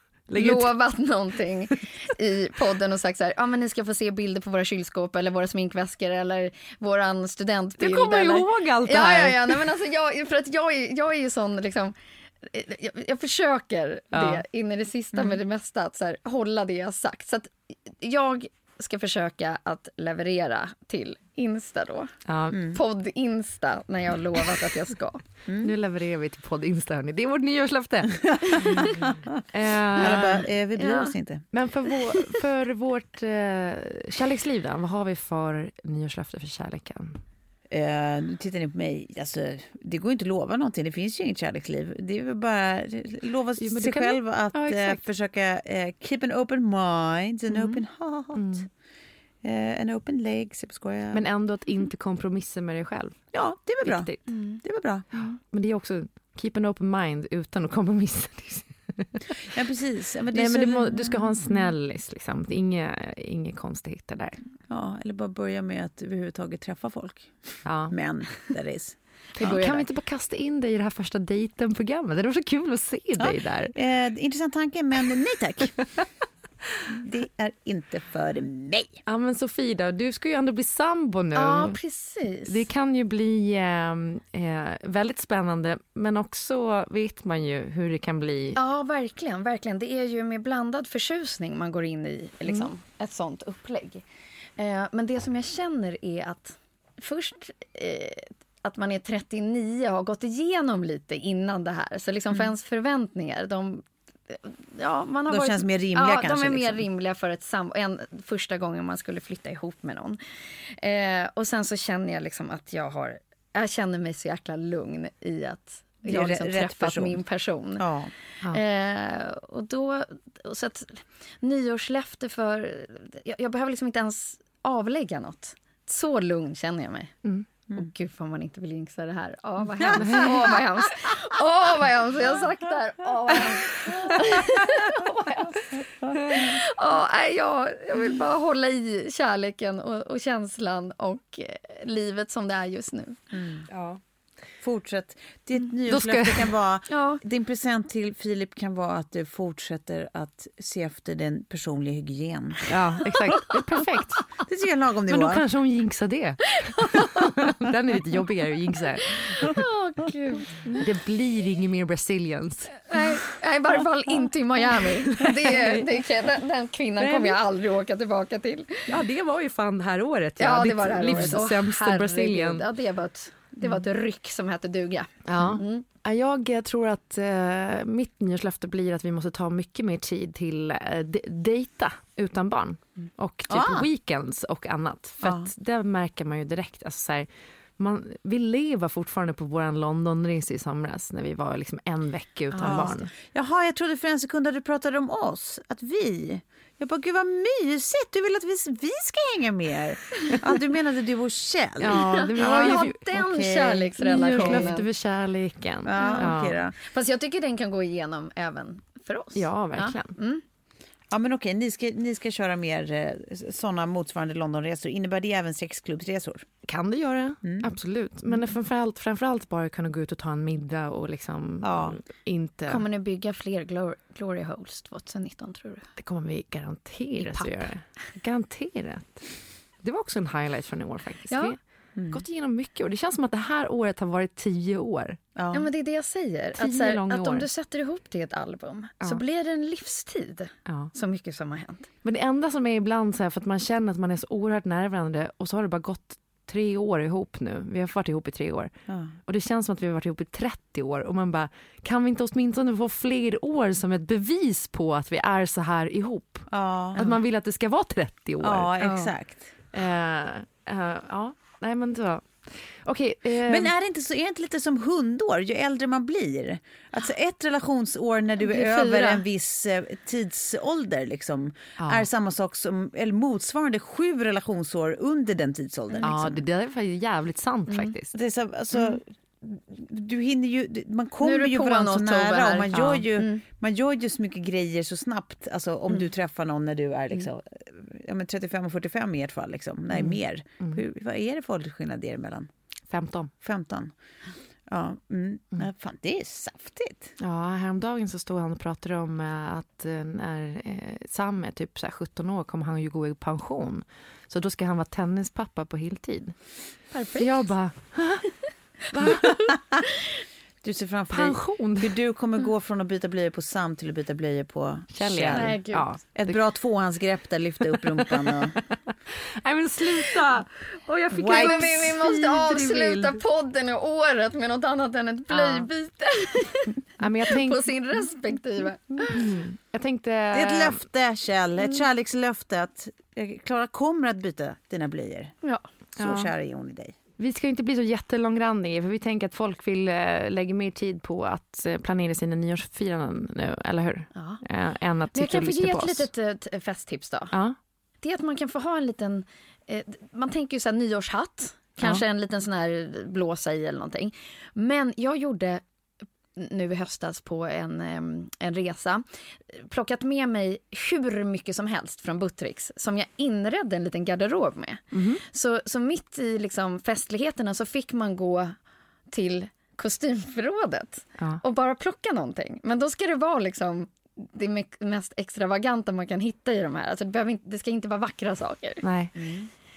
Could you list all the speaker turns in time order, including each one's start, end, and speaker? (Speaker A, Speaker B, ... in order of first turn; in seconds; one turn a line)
Speaker A: 0.3-0.8
Speaker B: 0.3-22.2
Speaker A: 7.8-9.7
Speaker A: 14.1-14.4
Speaker A: 22.3-22.7
Speaker B: 22.7-25.2
Speaker C: 25.5-25.7
Speaker A: 25.6-30.4
Speaker C: 28.8-29.4
Speaker C: 30.0-31.5
Speaker B: 30.8-31.1
Speaker A: 31.5-37.2
Speaker C: 37.7-48.7
Speaker A: 43.6-45.0
Speaker B: 47.5-47.8
Speaker A: 48.4-48.7
Speaker C: 49.4-51.2
Speaker A: 51.1-53.1
Speaker C: 53.3-55.1
Speaker A: 53.8-54.2
Speaker B: 54.3-54.6
Speaker A: 55.1-59.2
Speaker C: 59.5-61.5
Speaker A: 60.3-64.4
Speaker C: 64.7-69.5
Speaker A: 67.7-68.0
Speaker B: 69.4-69.9
Speaker A: 69.4-73.7
Speaker C: 73.2-75.8
Speaker C: 76.9-79.0
Speaker A: 79.1-81.8
Speaker B: 81.3-82.6
Speaker A: 82.5-88.6
Speaker B: 88.6-94.0
Speaker B: 94.6-110.2
Speaker C: 105.3-106.8
Speaker B: 110.8-117.8
Speaker C: 116.0-117.2
Speaker C: 117.8-118.1
Speaker B: 118.5-127.2
Speaker B: 127.7-135.7
Speaker C: 129.8-130.3
Speaker A: 130.0-130.6
Speaker C: 136.0-136.4
Speaker B: 136.3-143.2
Speaker C: 143.3-143.7
Speaker A: 143.7-144.0
Speaker C: 144.6-152.7
Speaker A: 145.9-146.5
Speaker B: 146.9-147.2
Speaker A: 152.7-154.3
Speaker C: 154.4-155.4
Speaker A: 155.1-159.6
Speaker B: 156.8-157.1
Speaker B: 159.2-160.8
Speaker A: 160.7-162.9
Speaker B: 162.9-168.8
Speaker A: 165.1-165.9
Speaker A: 167.0-167.4
Speaker A: 168.9-172.7
Speaker B: 170.4-175.9
Speaker A: 175.3-193.1
Speaker C: 183.5-183.9
Speaker C: 185.2-185.5
Speaker B: 192.5-193.1
Speaker C: 192.6-204.7
Speaker A: 201.8-203.0
Speaker B: 201.9-204.9
Speaker A: 204.0-206.6
Speaker C: 205.8-206.8
Speaker B: 206.0-210.4
Speaker A: 209.4-210.1
Speaker C: 211.1-216.5
Speaker A: 216.7-222.8
Speaker C: 217.4-217.7
Speaker C: 221.6-222.0
Speaker B: 222.7-225.9
Speaker A: 226.0-229.3
Speaker B: 227.2-227.7
Speaker A: 229.8-231.6
Speaker B: 231.3-231.5
Speaker C: 232.0-232.2
Speaker A: 232.1-235.2
Speaker C: 235.4-235.7
Speaker B: 235.5-241.9
Speaker A: 236.6-237.5
Speaker A: 240.7-240.9
Speaker A: 242.0-248.7
Speaker C: 248.9-249.2
Speaker A: 249.3-258.8
Speaker C: 256.5-257.0
Speaker C: 258.4-259.6
Speaker A: 259.7-263.7
Speaker C: 263.5-276.4
Speaker B: 268.4-269.2
Speaker A: 271.8-272.1
Speaker A: 276.0-278.1
Speaker B: 277.7-277.9
Speaker C: 278.1-292.5
Speaker B: 281.2-283.4
Speaker A: 282.7-283.0
Speaker A: 289.9-290.8
Speaker A: 292.9-293.3
Speaker C: 293.4-293.9
Speaker C: 294.7-297.1
Speaker A: 297.2-306.4
Speaker B: 306.9-307.5
Speaker A: 307.2-309.5
Speaker C: 310.6-315.6
Speaker A: 311.1-311.9
Speaker A: 314.9-316.4
Speaker B: 315.3-315.9
Speaker C: 316.1-318.6
Speaker A: 318.1-323.2
Speaker B: 321.1-326.7
Speaker C: 321.1-321.9
Speaker A: 325.3-325.7
Speaker A: 327.0-327.7
Speaker B: 327.3-329.2
Speaker A: 329.1-330.8
Speaker C: 330.3-335.4
Speaker A: 336.0-336.3
Speaker C: 336.0-337.0
Speaker A: 337.2-346.1
Speaker B: 344.1-344.4
Speaker B: 345.1-347.4
Speaker B: 348.0-355.6
Speaker A: 351.8-352.0
Speaker B: 356.4-368.6
Speaker A: 364.9-365.2
Speaker B: 369.1-378.9
Speaker A: 378.8-379.1
Speaker C: 379.2-379.5